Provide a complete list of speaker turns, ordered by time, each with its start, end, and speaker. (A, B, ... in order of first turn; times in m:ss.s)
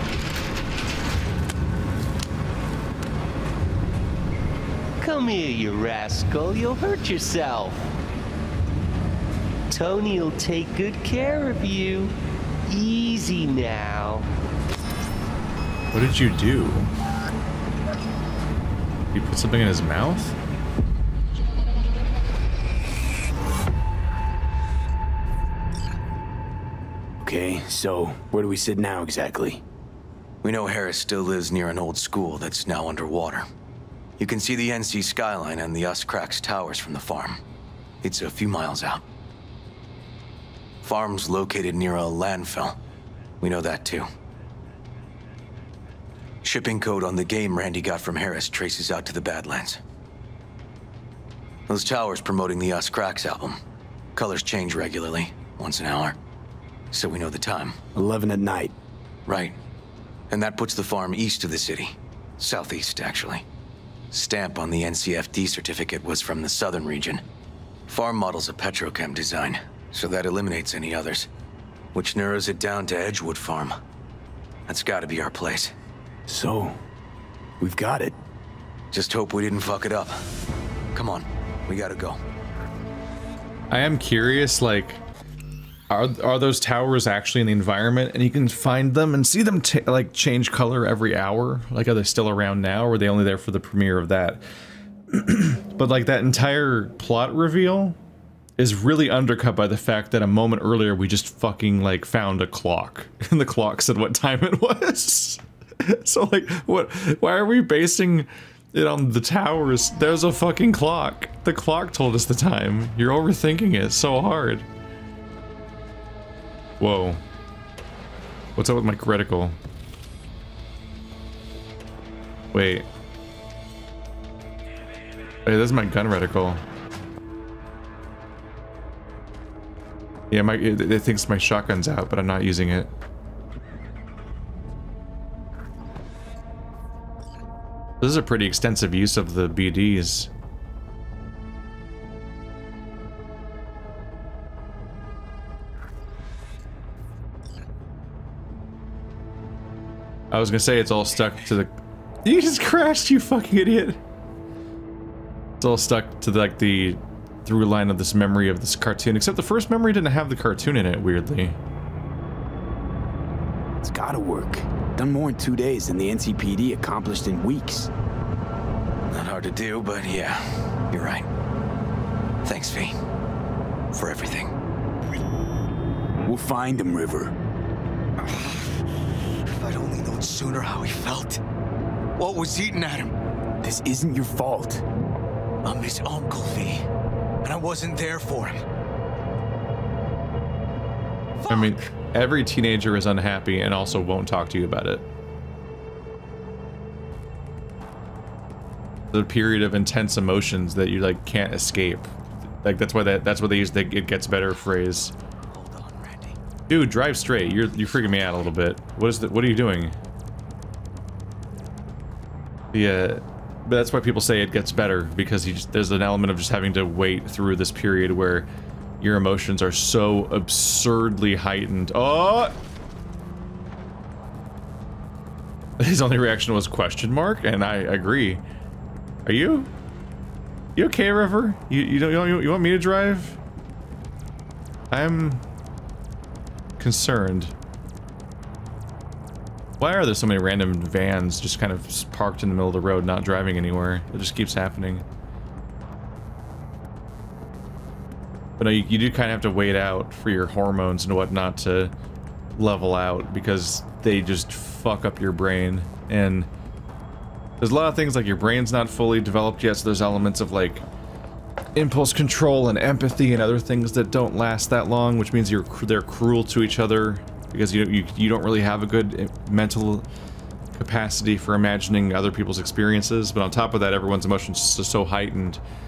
0:05.0-0:07.9 A
0:09.7-0:12.1 A
0:12.7-0:14.3 A
0:15.9-0:16.9 B
0:19.1-0:20.4 B
0:27.2-0:29.6 C
0:30.4-0:33.5 D
0:34.2-0:37.4 D
0:38.0-0:39.0 D
0:40.8-0:42.8 D
0:43.4-0:44.1 D
0:46.4-0:49.8 D
0:51.7-0:53.6 D
0:54.2-0:56.2 D
0:56.9-0:57.8 D
0:58.0-0:58.8 C
0:59.3-0:59.6 D
1:00.3-1:03.4 D
1:04.1-1:07.2 D
1:07.9-1:11.3 D
1:11.9-1:13.8 D
1:14.7-1:15.7 D
1:16.3-1:16.8 C
1:17.6-1:18.2 C
1:18.9-1:20.2 D
1:20.9-1:22.2 D
1:23.7-1:25.0 B
1:25.9-1:34.4 B
1:35.1-1:38.0 B
1:38.6-1:54.7 B
1:56.8-1:57.2 B
1:58.6-1:59.6 B
2:02.5-2:02.9 B
2:05.4-2:06.6 B
2:10.3-2:12.9 B
2:18.0-2:20.3 B
2:30.3-2:34.0 B
2:35.6-2:41.6 B
2:43.8-2:47.9 C
2:49.1-2:51.3 D
2:52.4-2:53.0 D
2:53.9-2:54.5 D
2:56.2-2:57.4 C
2:59.6-3:01.4 D
3:02.2-3:03.1 D
3:03.6-3:04.8 C
3:05.6-3:06.9 D
3:07.4-3:08.6 D
3:11.4-3:11.7 D
3:11.5-3:15.1 B
3:19.1-3:22.1 B
3:22.6-3:25.2 B
3:25.5-3:26.4 D
3:26.7-3:30.0 B
3:27.8-3:28.3 D
3:32.7-3:38.5 B
3:39.0-3:42.6 B
3:45.8-3:48.4 B
3:49.2-3:49.7 B
3:50.8-3:53.4 B
3:54.9-3:55.4 B
3:56.8-3:57.5 B
3:59.8-4:05.0 B
4:08.6-4:11.9 B
4:12.6-4:16.5 B
4:17.6-4:20.8 B
4:21.8-4:30.1 B
4:30.7-4:35.6 B